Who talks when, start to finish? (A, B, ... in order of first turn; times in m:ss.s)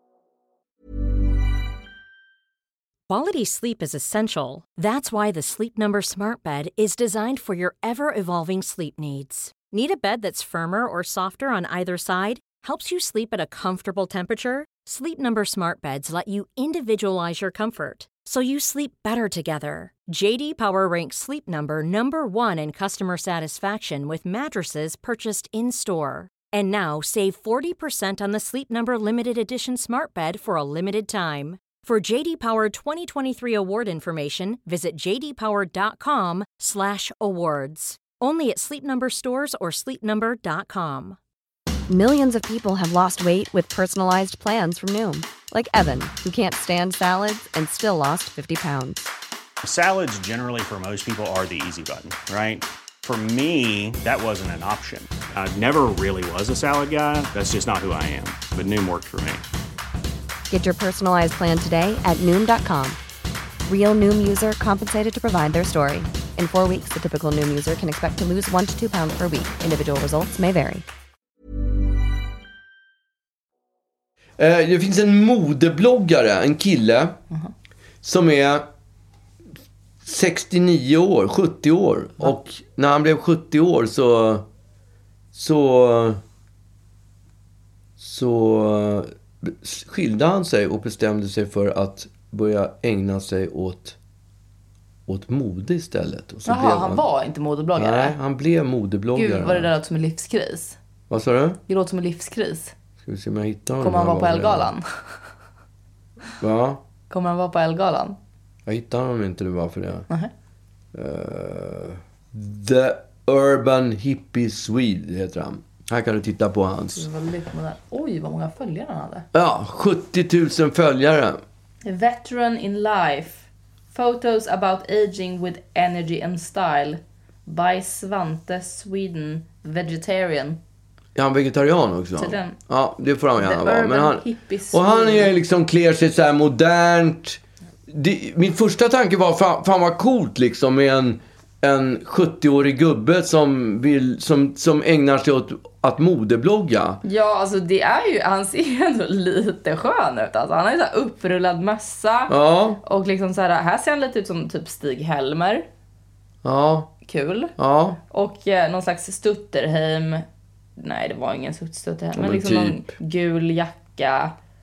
0:03.1-0:41.2 A
0:41.9-0:49.1 B
0:49.6-0:59.4 C
1:00.5-1:03.0 B
1:03.6-1:10.8 B
1:14.4-1:17.2 D
1:18.0-1:18.6 D
1:20.0-1:24.5 D
1:25.3-1:26.2 D
1:28.0-1:34.0 D
1:35.1-1:37.0 D
1:36.4-1:38.2 E
1:37.8-1:39.7 D
1:39.1-1:40.8 E
1:41.1-1:41.6 D
1:41.7-1:42.7 E
1:43.0-1:44.7 D
1:43.8-1:44.8 E
1:46.4-1:46.8 D
1:47.1-1:48.2 E
1:48.6-1:50.1 D
1:50.9-1:57.0 D
1:56.9-1:59.2 E
1:59.3-2:01.4 D
2:01.8-2:10.6 E
2:11.1-2:27.0 D
2:12.2-2:12.6 E
2:13.4-2:15.3 E
2:27.0-2:35.6 E
2:32.3-2:32.8 D
2:36.4-2:36.9 D
2:37.0-2:37.5 E
2:37.6-2:38.0 D
2:38.1-2:40.2 E
2:40.8-2:44.3 E
2:42.1-2:42.9 D